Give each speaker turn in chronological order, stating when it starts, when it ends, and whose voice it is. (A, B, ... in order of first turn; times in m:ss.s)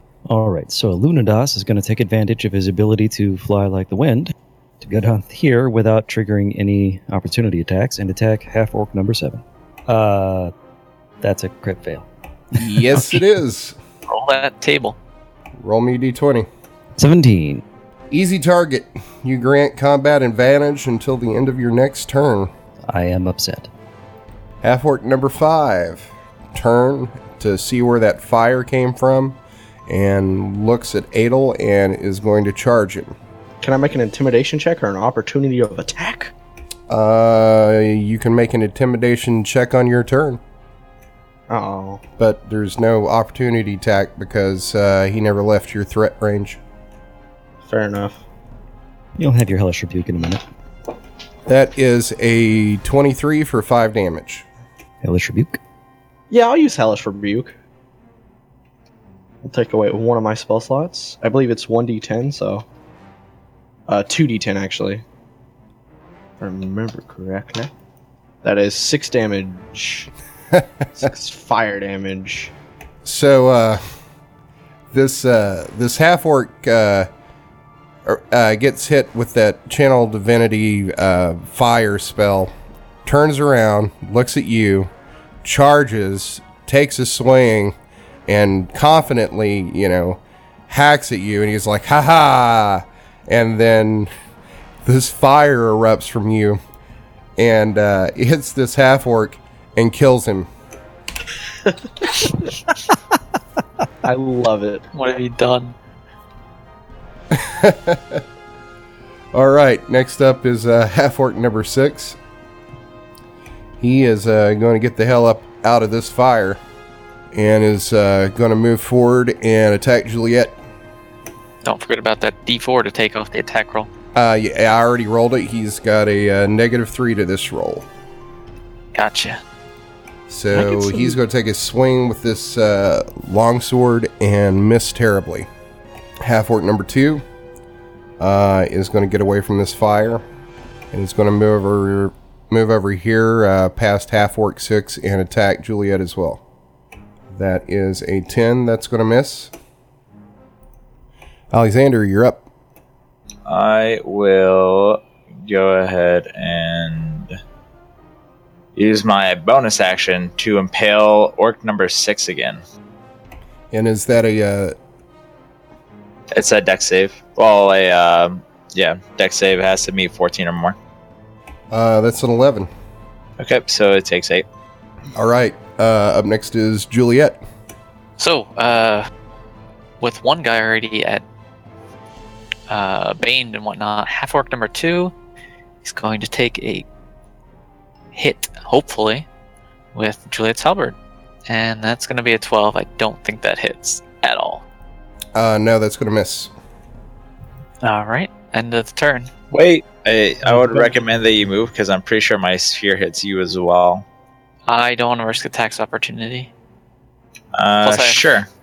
0:00.3-0:10.5 A
0:11.2-0:13.0 A
0:12.6-0:13.8 B
0:14.1-0:15.0 C
0:15.6-0:16.5 B
0:17.0-0:17.6 A
0:18.1-0:22.5 B
0:22.9-0:23.7 A
0:24.6-0:33.2 B
0:33.6-0:36.3 D
0:36.9-0:40.4 B
0:41.5-0:42.0 D
0:42.2-0:46.6 B
0:47.6-0:48.2 D
0:49.2-0:50.4 A
0:51.5-0:54.5 B
0:55.0-0:55.6 A
0:56.3-0:57.5 D
0:59.4-1:02.6 D
1:03.9-1:05.0 D
1:06.4-1:07.7 D
1:08.4-1:10.1 D
1:11.0-1:12.5 D
1:13.0-1:13.8 B
1:14.9-1:17.1 B
1:18.0-1:22.5 B
1:23.0-1:24.9 B
1:25.4-1:27.8 B
1:28.3-1:34.1 B
1:34.8-1:36.6 B
1:37.4-1:40.5 B
1:44.0-1:44.8 D
1:44.9-1:45.8 C
1:47.3-1:48.2 B
1:49.3-1:52.2 B
1:53.8-1:56.6 B
1:57.3-2:00.6 B
2:01.6-2:03.9 C
2:04.2-2:07.9 B
2:08.9-2:09.4 C
2:10.3-2:15.5 B
2:10.5-2:11.2 D
2:16.2-2:17.2 B
2:18.2-2:20.2 B
2:20.9-2:26.4 B
2:27.3-2:29.5 B
2:31.5-2:32.4 B
2:33.5-2:37.4 E
2:38.8-2:42.6 E
2:43.7-2:44.8 B
2:46.3-2:50.8 E
2:51.7-2:52.7 B
2:53.4-2:54.5 E
2:55.2-2:57.4 B
2:58.2-2:59.1 C
3:00.0-3:01.2 C
3:02.7-3:05.1 C
3:05.8-3:06.9 C
3:08.1-3:09.3 C
3:09.9-3:11.0 C
3:11.5-3:14.6 C
3:15.4-3:16.5 B
3:17.8-3:19.3 C
3:19.5-3:24.0 E
3:20.5-3:20.8 A
3:24.7-3:26.5 C
3:27.6-3:28.5 E
3:27.8-3:28.3 C